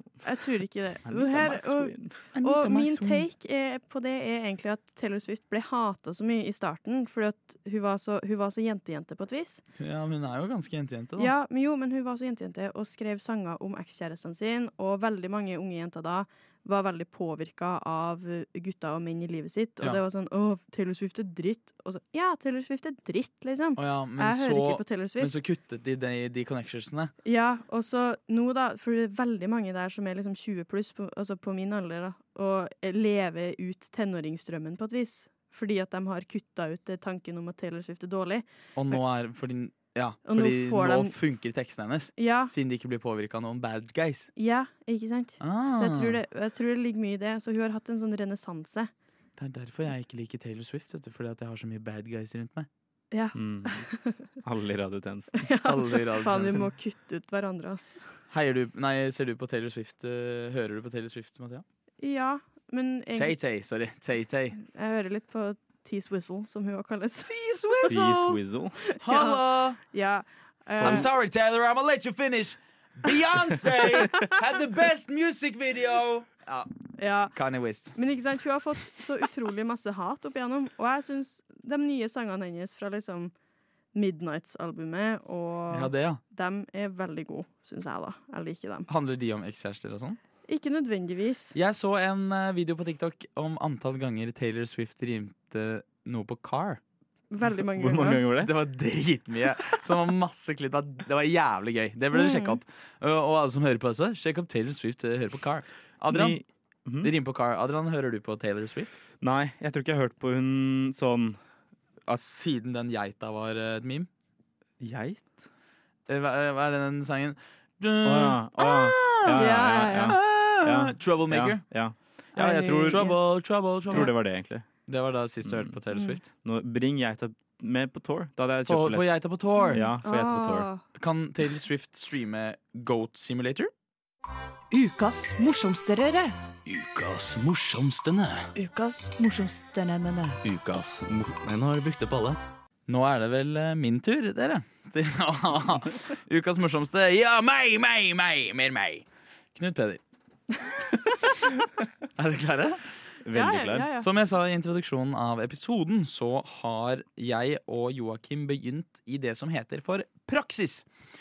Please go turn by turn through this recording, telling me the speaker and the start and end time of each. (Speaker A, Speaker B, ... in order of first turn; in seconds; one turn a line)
Speaker A: 0.2-9.6
Speaker B: 1.1-2.2
Speaker C: 2.3-3.3
Speaker C: 9.8-11.3
Speaker A: 11.2-25.3
Speaker C: 23.8-27.1
Speaker A: 27.2-38.5
Speaker C: 38.8-44.3
Speaker A: 40.3-41.1
Speaker A: 42.2-42.5
Speaker A: 44.4-48.9
Speaker C: 45.4-46.2
Speaker C: 49.4-52.7
Speaker A: 53.1-54.2
Speaker B: 53.4-53.9
Speaker B: 54.4-55.5
Speaker A: 55.4-58.0
Speaker C: 55.6-56.7
Speaker C: 58.3-61.6
Speaker A: 62.0-63.4
Speaker C: 63.1-64.6
Speaker A: 64.6-67.3
Speaker C: 67.2-68.4
Speaker B: 67.9-68.8
Speaker A: 68.9-71.1
Speaker C: 69.0-69.8
Speaker C: 70.8-76.7
Speaker A: 77.0-77.3
Speaker C: 77.3-78.0
Speaker A: 78.0-83.3
Speaker A: 83.9-88.9
Speaker C: 85.7-86.2
Speaker C: 88.9-90.2
Speaker A: 90.5-91.6
Speaker C: 91.5-96.8
Speaker A: 97.3-98.2
Speaker B: 97.8-98.5
Speaker C: 98.4-106.4
Speaker A: 102.1-102.6
Speaker B: 106.1-107.1
Speaker C: 107.0-109.0
Speaker B: 109.2-111.4
Speaker C: 112.1-114.1
Speaker B: 114.8-115.5
Speaker C: 116.1-119.5
Speaker B: 118.0-123.1
Speaker A: 119.3-120.2
Speaker C: 120.0-121.6
Speaker A: 122.4-123.2
Speaker C: 122.9-124.1
Speaker B: 123.9-124.7
Speaker C: 124.9-126.3
Speaker B: 125.4-125.7
Speaker B: 126.3-129.1
Speaker C: 128.7-129.9
Speaker A: 129.6-130.8
Speaker B: 129.7-130.7
Speaker C: 130.9-133.7
Speaker D: 134.7-136.3
Speaker C: 136.7-138.5
Speaker D: 138.6-140.4
Speaker E: 140.4-142.4
Speaker C: 142.9-150.0
Speaker C: 152.2-152.8
Speaker B: 153.2-153.9
Speaker A: 153.3-154.1
Speaker C: 154.0-160.9